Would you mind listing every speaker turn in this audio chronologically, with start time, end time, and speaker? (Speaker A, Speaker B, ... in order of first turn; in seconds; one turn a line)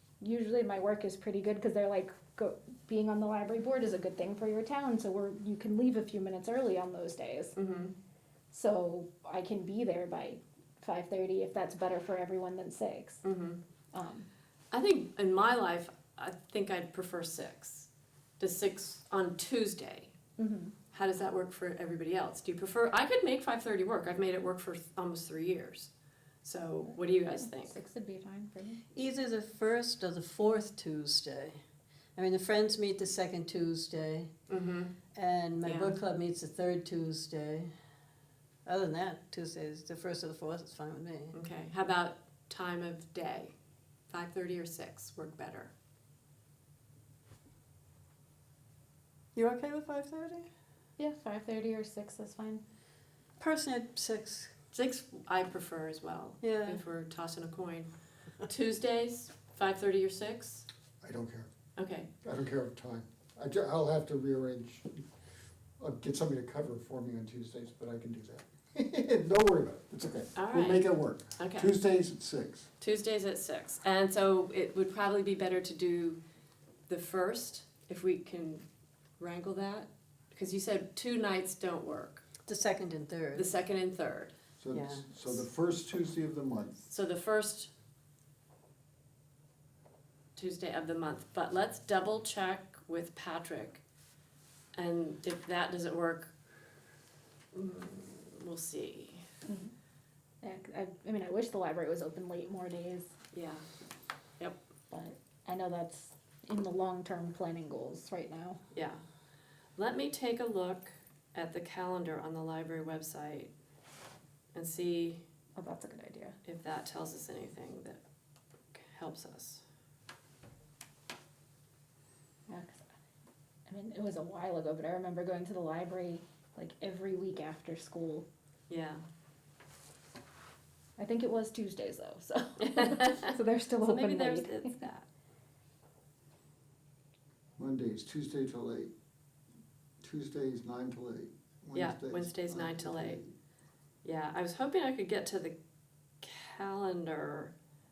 Speaker A: 0.2-7.5
Speaker B: 7.5-7.9
Speaker A: 8.5-13.2
Speaker B: 13.2-13.6
Speaker A: 13.9-14.3
Speaker B: 14.7-20.1
Speaker A: 20.4-20.7
Speaker B: 20.9-25.9
Speaker B: 26.4-27.8
Speaker A: 26.9-28.8
Speaker C: 28.9-31.6
Speaker C: 32.1-34.3
Speaker B: 34.5-34.9
Speaker C: 35.1-37.7
Speaker B: 35.6-36.0
Speaker C: 38.6-41.3
Speaker B: 41.3-43.5
Speaker B: 44.1-45.7
Speaker C: 49.3-50.5
Speaker A: 51.0-52.6
Speaker C: 53.4-54.5
Speaker B: 54.7-57.9
Speaker C: 56.4-56.8
Speaker B: 58.4-60.7
Speaker D: 61.0-61.5
Speaker B: 61.8-62.1
Speaker D: 62.2-65.0
Speaker D: 65.8-72.7
Speaker B: 70.3-71.7
Speaker B: 72.8-76.2
Speaker B: 76.9-78.6
Speaker B: 79.2-82.2
Speaker C: 82.5-83.5
Speaker B: 83.3-84.3
Speaker D: 84.6-86.8
Speaker C: 84.7-85.0
Speaker B: 86.8-87.7
Speaker B: 90.3-93.8
Speaker B: 94.7-96.3
Speaker B: 97.5-99.2
Speaker A: 99.5-99.7
Speaker A: 100.4-103.1
Speaker B: 103.3-103.6
Speaker A: 104.9-108.6
Speaker B: 108.7-109.0
Speaker B: 109.8-113.5
Speaker B: 114.5-115.2
Speaker A: 115.5-116.4
Speaker B: 116.4-118.0
Speaker B: 118.7-119.6
Speaker A: 122.5-122.9
Speaker A: 123.7-128.2
Speaker B: 128.7-129.0
Speaker A: 131.0-134.8
Speaker B: 132.6-135.1
Speaker D: 137.6-138.9
Speaker D: 140.0-143.3
Speaker B: 141.7-143.2
Speaker B: 144.0-145.6
Speaker B: 146.2-147.5